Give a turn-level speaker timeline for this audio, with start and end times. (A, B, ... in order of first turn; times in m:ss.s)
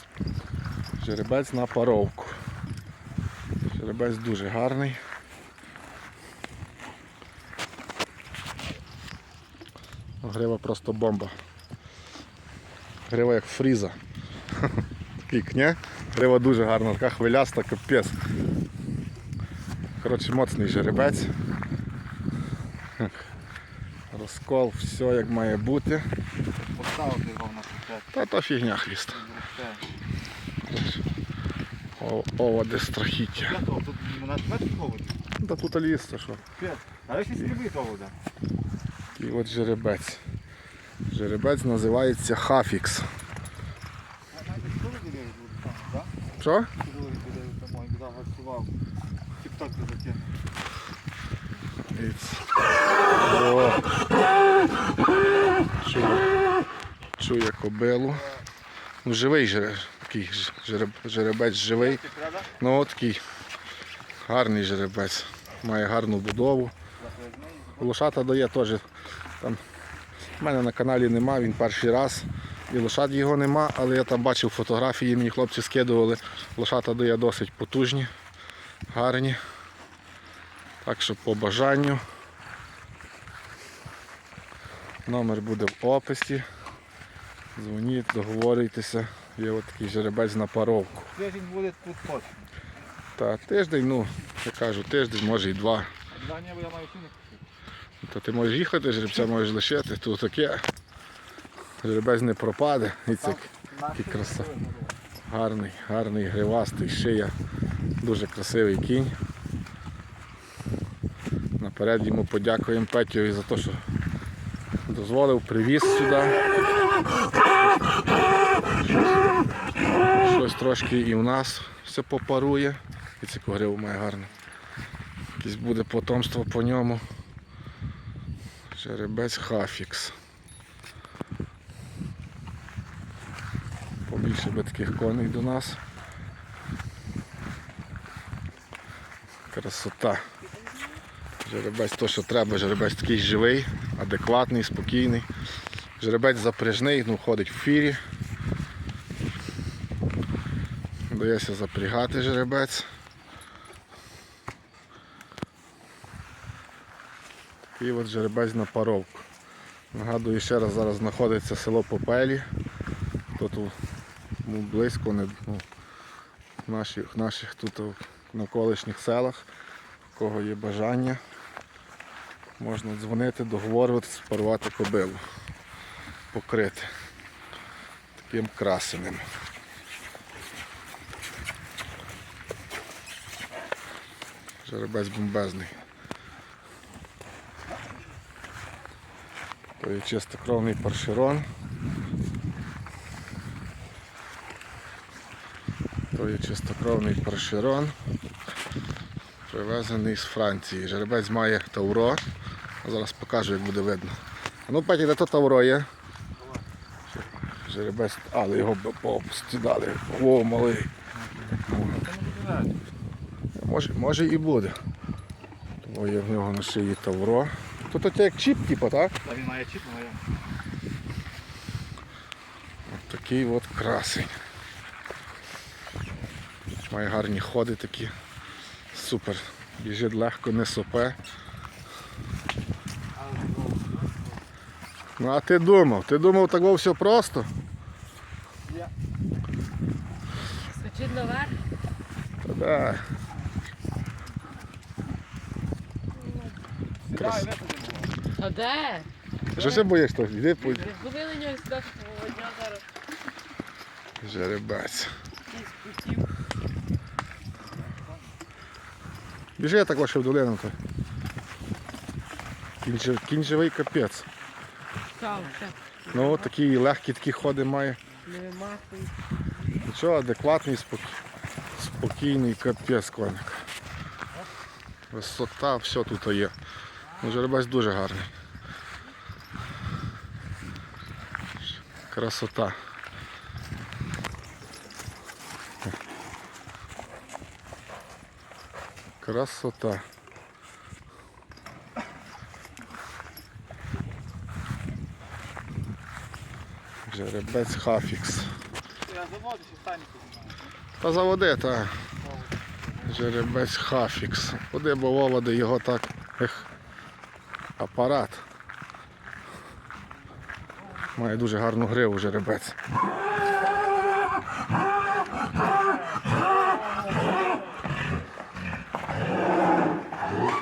0:01.0-0:02.4 A
0:03.7-0:05.0 A
0:10.2-0:11.3 A
0:13.0-0:14.0 A
0:15.3-0:18.2 A
0:20.0-0:21.3 A
0:24.1-0:26.1 A
0:26.6-0:28.1 B
0:28.1-0:29.2 A
0:29.1-0:29.8 B
0:30.6-0:31.0 A
0:32.0-0:33.6 A
0:33.4-0:35.2 B
0:35.4-0:36.4 A
0:36.6-0:38.1 B
0:39.2-0:40.2 A
0:41.1-0:43.1 A
0:44.3-0:46.1 B
0:46.4-0:46.7 A
0:46.8-0:48.7 B
0:49.4-0:50.3 B
0:51.9-0:52.5 A
0:53.2-0:53.9 A
0:55.8-0:56.3 A
0:57.2-0:58.2 A
0:59.0-1:02.0 A
1:01.8-1:02.5 B
1:02.6-1:03.2 A
1:04.2-1:06.7 A
1:07.0-1:08.0 B
1:07.8-1:08.8 A
1:10.4-1:18.1 A
1:18.9-1:19.4 A
1:20.8-1:22.0 A
1:25.0-1:26.4 A
1:27.5-1:31.1 A
1:31.1-1:32.5 B
1:33.2-1:35.9 A
1:36.1-1:37.4 B
1:38.0-1:40.6 A
1:41.8-1:44.5 A
1:43.2-1:44.9 B
1:45.3-1:47.3 A
1:48.0-1:49.1 A
1:51.6-1:53.8 A
1:54.8-1:56.5 A
1:57.4-1:58.0 A
1:58.8-1:59.1 A
2:00.2-2:04.3 A
2:05.4-2:07.0 A
2:08.7-2:10.1 A
2:14.1-2:15.8 A
2:19.5-2:20.3 A
2:21.4-2:25.3 A
2:26.0-2:28.0 A
2:31.1-2:32.9 A
2:37.7-2:39.3 A
2:39.9-2:42.5 A
2:43.3-2:43.7 A
2:44.4-2:45.6 A
2:46.6-2:49.5 A
2:50.1-2:51.2 A
2:52.6-2:55.2 A
2:56.3-2:56.9 A
2:58.2-2:59.2 A
3:04.6-3:05.8 A
3:09.8-3:11.4 A
3:16.1-3:17.9 A
3:19.5-3:22.2 A
3:22.8-3:24.2 A
3:24.7-3:25.9 A
3:27.1-3:30.9 A
3:31.2-3:32.8 B
3:31.7-3:32.0 A
3:33.5-3:34.8 A
3:35.8-3:39.2 A
3:39.2-3:40.2 B
3:42.9-3:44.3 A
3:46.9-3:48.1 A
3:48.9-3:51.2 A
3:53.1-3:54.3 B
3:55.2-3:57.5 A
4:00.6-4:01.6 C
4:02.4-4:03.0 A
4:07.0-4:08.2 B
4:07.2-4:07.4 A
4:08.4-4:09.1 C
4:09.5-4:10.9 A
4:09.6-4:09.8 B
4:10.7-4:12.8 C
4:14.2-4:15.1 A
4:15.5-4:16.3 C
4:19.6-4:20.8 A
4:22.8-4:24.3 A
4:25.2-4:26.4 C
4:26.1-4:28.0 A
4:28.2-4:29.2 C
4:29.8-4:31.2 A
4:31.8-4:33.7 A
4:35.1-4:36.5 A
4:37.2-4:38.3 A
4:42.1-4:42.8 A
4:49.2-4:50.0 A
4:57.0-4:58.5 A
4:59.0-5:00.6 B
5:01.0-5:01.9 A
5:03.0-5:06.7 A
5:07.8-5:08.4 A
5:11.2-5:12.8 A